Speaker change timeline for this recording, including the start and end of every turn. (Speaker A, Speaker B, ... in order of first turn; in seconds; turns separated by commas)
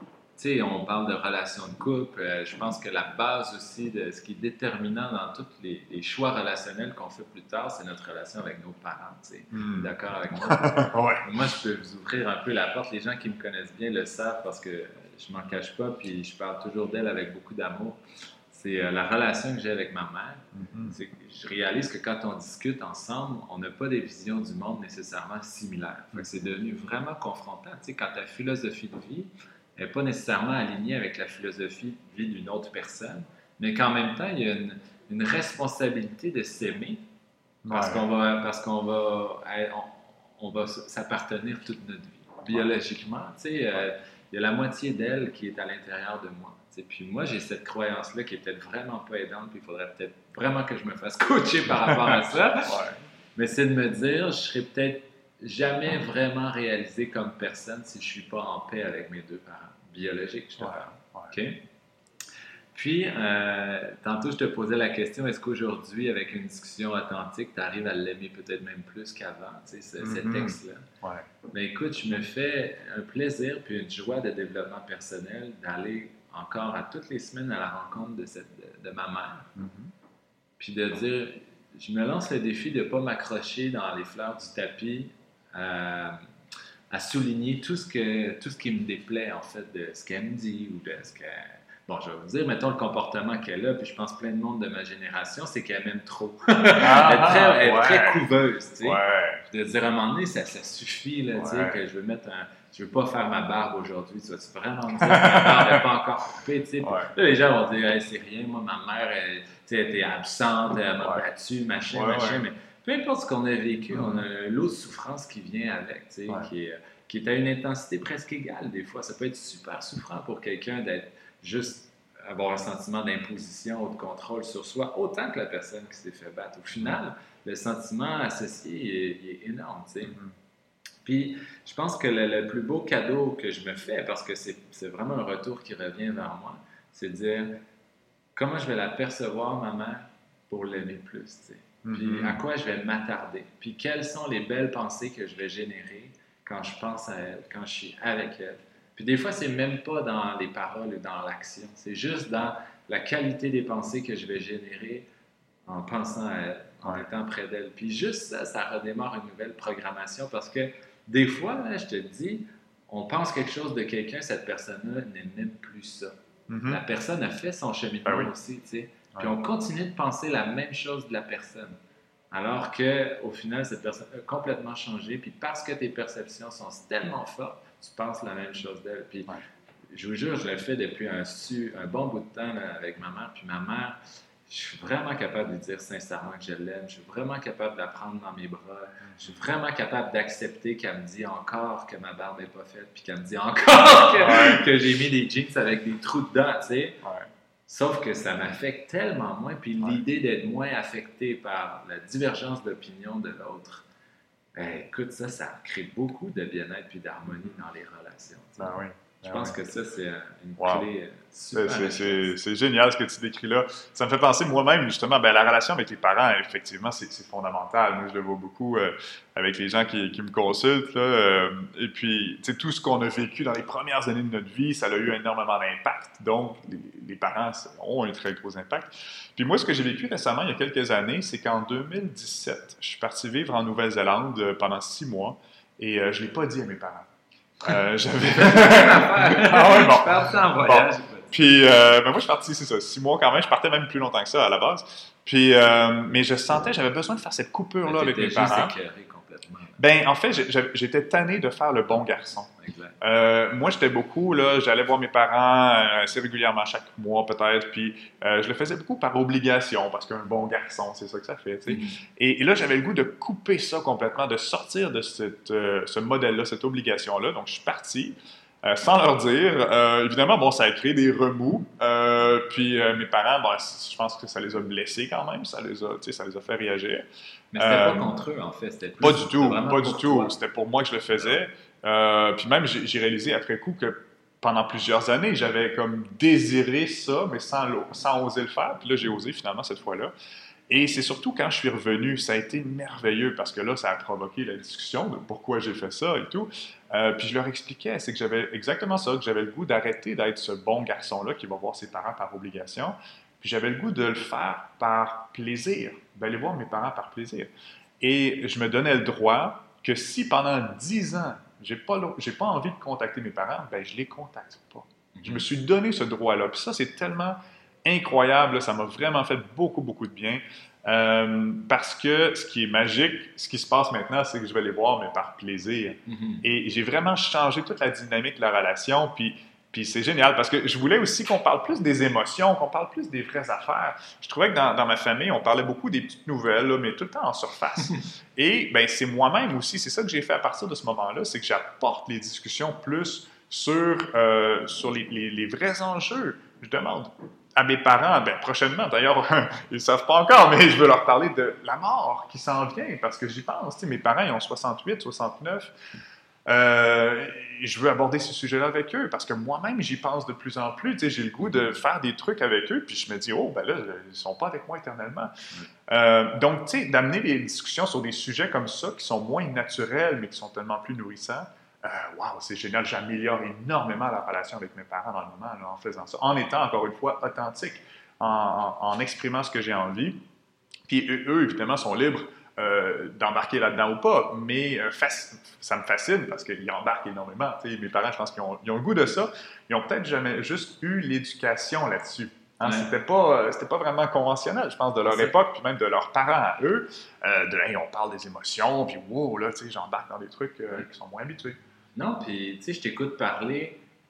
Speaker A: 0.3-37.0, Speaker B: 9.5-11.2, Speaker B: 20.5-21.0, Speaker B: 37.6-38.0, Speaker A: 37.7-52.8, Speaker B: 51.9-53.0, Speaker A: 53.3-61.6, Speaker B: 60.6-61.3, Speaker A: 62.7-70.9, Speaker B: 70.0-71.3, Speaker A: 71.5-79.5, Speaker B: 79.5-79.9, Speaker A: 80.6-86.2, Speaker A: 86.9-130.2, Speaker B: 96.8-98.2, Speaker B: 98.8-99.4, Speaker B: 101.3-101.8, Speaker B: 105.0-105.8, Speaker B: 106.8-107.1, Speaker B: 111.9-112.4, Speaker B: 113.9-114.2, Speaker B: 130.0-130.3, Speaker A: 131.0-137.6, Speaker A: 138.3-155.1, Speaker B: 141.8-142.4, Speaker A: 155.7-166.1, Speaker B: 166.5-166.8, Speaker A: 166.7-171.8, Speaker B: 168.1-168.3, Speaker A: 172.3-179.4, Speaker A: 179.9-197.0, Speaker B: 189.1-189.3, Speaker B: 194.2-194.7, Speaker A: 197.7-203.8, Speaker A: 204.6-212.3, Speaker B: 208.6-209.6, Speaker B: 210.6-210.9, Speaker B: 211.5-237.1, Speaker B: 237.6-248.7, Speaker A: 238.2-241.4, Speaker A: 247.8-249.8, Speaker B: 249.8-277.0, Speaker A: 252.6-253.0, Speaker A: 261.7-262.0, Speaker A: 277.5-280.4, Speaker B: 277.6-278.1, Speaker B: 279.0-290.1, Speaker B: 290.7-355.7, Speaker A: 315.1-315.4, Speaker A: 326.1-326.4, Speaker B: 356.4-365.3, Speaker B: 365.9-380.2, Speaker B: 380.9-401.6, Speaker A: 392.6-392.9, Speaker A: 395.0-395.4, Speaker A: 401.9-403.8